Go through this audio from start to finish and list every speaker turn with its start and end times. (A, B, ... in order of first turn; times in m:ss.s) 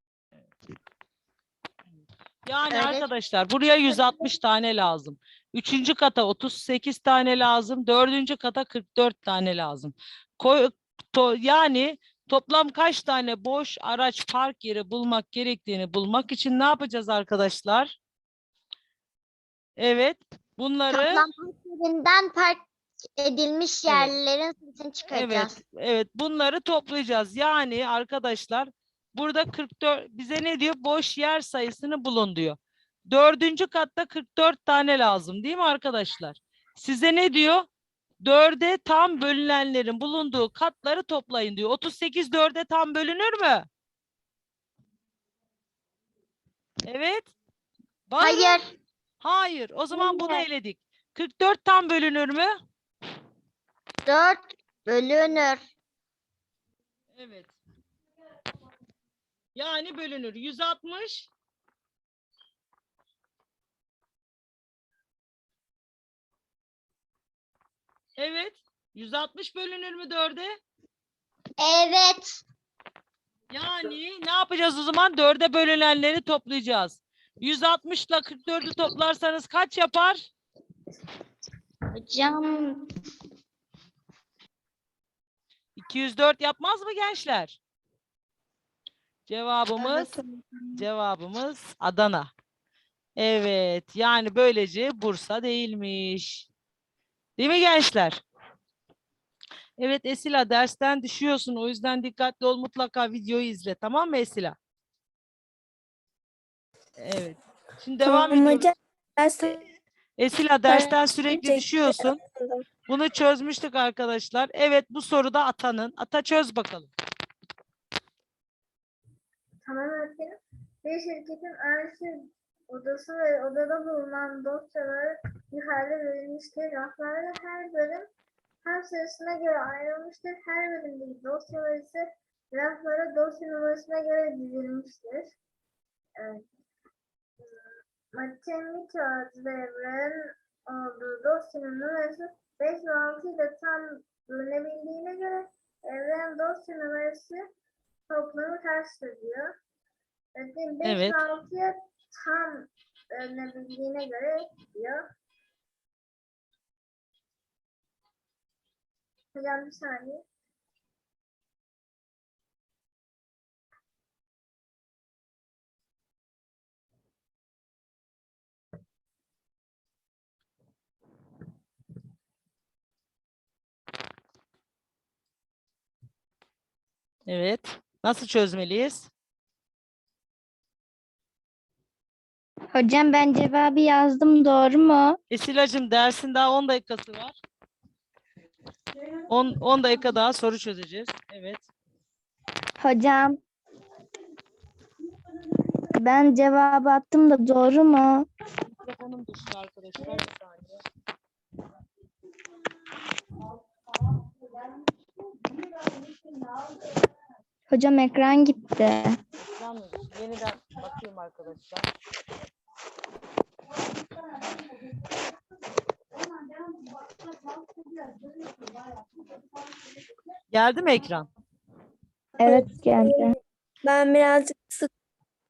0:02.4-0:17.9 A
0:02.7-0:03.0 B
0:19.8-0:21.2 A
0:20.9-0:22.6 B
0:23.2-0:25.6 B
0:23.9-0:24.1 A
0:25.1-0:37.7 A
0:38.2-0:43.7 A
0:46.8-0:47.3 A
0:48.1-0:48.6 A
0:48.2-0:48.6 B
0:49.2-0:52.5 A
0:54.0-0:55.7 B
0:57.1-0:57.6 A
0:59.5-1:01.3 A
1:08.2-1:10.6 A
1:11.6-1:12.4 B
1:13.5-1:20.3 A
1:21.9-1:22.9 B
1:25.8-1:27.6 A
1:29.3-1:30.2 A
1:29.8-1:30.7 C
1:30.8-1:32.3 A
1:33.2-1:36.5 A
1:37.4-1:38.2 A
1:39.8-1:44.6 A
1:47.0-1:48.7 A
1:48.1-1:49.6 C
1:50.2-1:52.2 A
1:50.7-1:52.6 C
1:52.9-1:56.9 A
1:59.6-2:08.1 D
2:08.6-2:15.3 D
2:16.2-2:16.4 D
2:18.1-2:27.4 D
2:28.1-2:29.5 D
2:30.4-2:35.0 D
2:30.8-2:31.2 A
2:39.3-2:40.2 D
2:57.3-2:59.1 A
3:02.7-3:05.2 E
3:05.3-3:07.4 A
3:09.3-3:11.6 A
3:12.8-3:13.4 E
3:15.9-3:18.3 E
3:18.8-3:20.8 A
3:27.7-3:29.2 E
3:29.4-3:31.9 A
3:40.5-3:41.3 A
3:42.4-3:44.9 C
3:42.4-3:43.3 E